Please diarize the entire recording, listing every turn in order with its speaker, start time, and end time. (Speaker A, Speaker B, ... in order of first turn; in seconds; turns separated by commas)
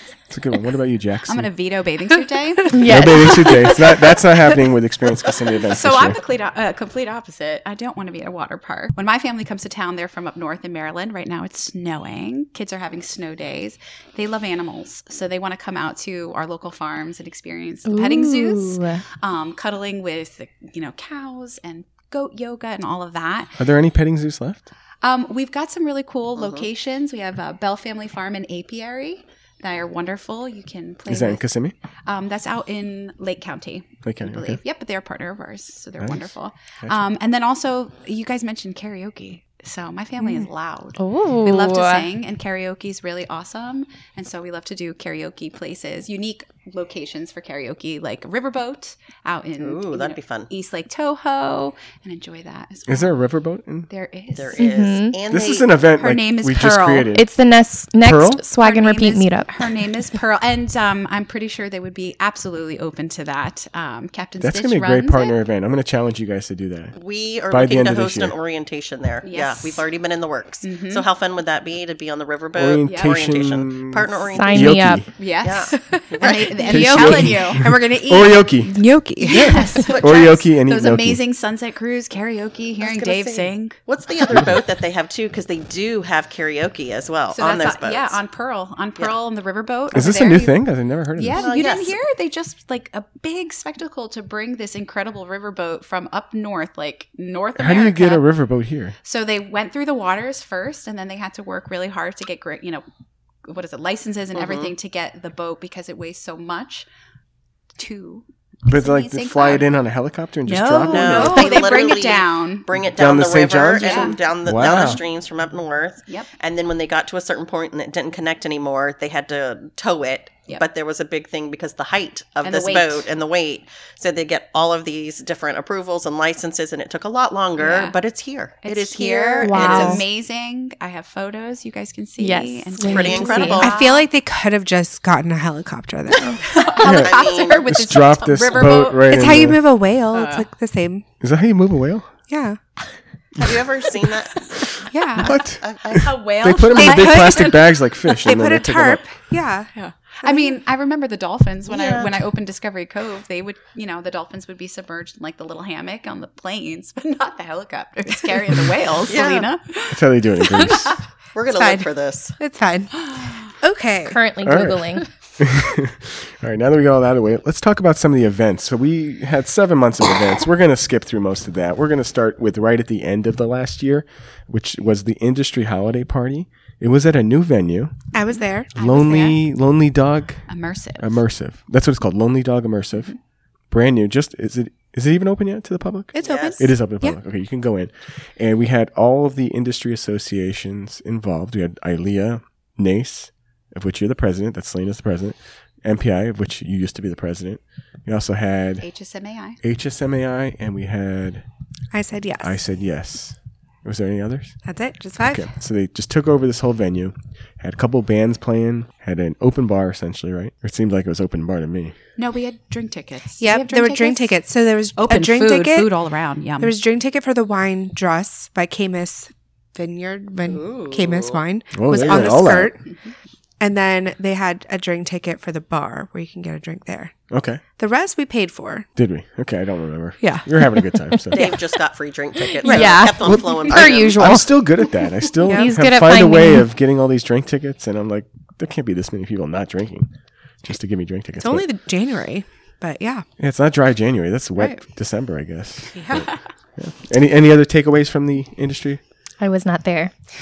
Speaker A: 0.3-1.5, Speaker B: 1.3-3.4, Speaker A: 2.7-6.2, Speaker C: 2.7-3.7, Speaker B: 5.6-23.6, Speaker C: 17.9-19.0, Speaker A: 23.6-24.7, Speaker B: 25.0-31.4, Speaker D: 26.4-26.7, Speaker A: 31.1-31.7, Speaker B: 32.1-53.2, Speaker A: 34.0-34.6, Speaker A: 36.0-37.1, Speaker C: 41.0-42.1, Speaker D: 49.6-50.5, Speaker A: 52.9-53.9, Speaker B: 53.9-54.7, Speaker D: 54.4-55.7, Speaker C: 54.6-55.2, Speaker A: 55.3-57.3, Speaker B: 56.0-57.1, Speaker C: 57.1-59.8, Speaker A: 58.0-58.4, Speaker B: 58.6-65.4, Speaker A: 64.4-66.9, Speaker D: 67.0-77.2, Speaker A: 67.5-68.3, Speaker B: 69.2-69.8, Speaker B: 70.6-71.1, Speaker A: 72.5-75.1, Speaker B: 72.8-73.3, Speaker C: 74.3-75.1, Speaker B: 75.2-77.6, Speaker E: 75.9-79.8, Speaker A: 76.7-81.2, Speaker B: 79.2-84.5, Speaker D: 79.9-80.4, Speaker D: 82.8-88.2, Speaker B: 87.3-90.6, Speaker A: 89.9-91.6, Speaker B: 91.2-98.3, Speaker D: 91.4-92.0, Speaker A: 97.6-99.0, Speaker B: 99.0-102.8, Speaker B: 103.5-106.9, Speaker D: 104.3-104.7, Speaker B: 107.8-109.7, Speaker A: 108.7-111.5, Speaker B: 110.5-112.7, Speaker D: 110.8-130.0, Speaker A: 113.0-115.0, Speaker B: 113.8-114.2, Speaker B: 122.4-123.1, Speaker B: 127.6-128.0, Speaker B: 128.6-134.1, Speaker C: 129.4-130.0, Speaker C: 132.2-133.7, Speaker D: 132.8-133.7, Speaker E: 133.6-136.4, Speaker B: 136.2-139.4, Speaker D: 136.2-138.0, Speaker A: 136.8-139.6, Speaker E: 139.0-141.1, Speaker B: 140.1-140.5, Speaker A: 141.2-142.1, Speaker E: 142.3-142.6, Speaker D: 143.4-144.9, Speaker E: 144.9-145.3, Speaker A: 145.2-149.0, Speaker D: 145.6-146.2, Speaker B: 145.9-148.3, Speaker E: 146.7-147.5, Speaker E: 148.2-149.7, Speaker B: 149.8-161.0, Speaker E: 150.2-150.6, Speaker D: 151.7-152.1, Speaker D: 159.1-159.5, Speaker A: 159.9-161.0, Speaker D: 161.3-162.4, Speaker E: 161.5-164.2, Speaker B: 163.0-163.5, Speaker C: 164.1-165.1, Speaker A: 164.4-177.9, Speaker E: 178.1-178.8, Speaker B: 178.8-179.4, Speaker A: 178.8-180.5, Speaker B: 180.5-181.2, Speaker A: 181.0-183.2, Speaker A: 183.7-198.9, Speaker E: 186.1-187.2, Speaker D: 186.2-186.7, Speaker B: 198.8-199.6, Speaker A: 199.6-201.4, Speaker E: 201.9-202.6, Speaker A: 202.4-204.6, Speaker E: 204.6-205.5, Speaker A: 205.2-211.9, Speaker B: 212.2-214.3, Speaker E: 213.4-215.9, Speaker B: 215.0-216.8, Speaker E: 216.6-222.9, Speaker D: 220.4-221.4, Speaker A: 221.7-222.7, Speaker E: 223.6-227.1, Speaker A: 227.3-227.6, Speaker E: 227.8-228.9, Speaker A: 229.0-231.5, Speaker E: 230.2-230.7, Speaker D: 231.3-234.5, Speaker C: 232.6-234.5, Speaker E: 232.7-233.4, Speaker A: 234.2-241.7, Speaker E: 235.4-235.7, Speaker C: 235.5-236.7, Speaker E: 241.4-243.3, Speaker A: 243.4-249.0, Speaker E: 244.6-244.8, Speaker E: 245.9-246.3, Speaker C: 249.4-250.1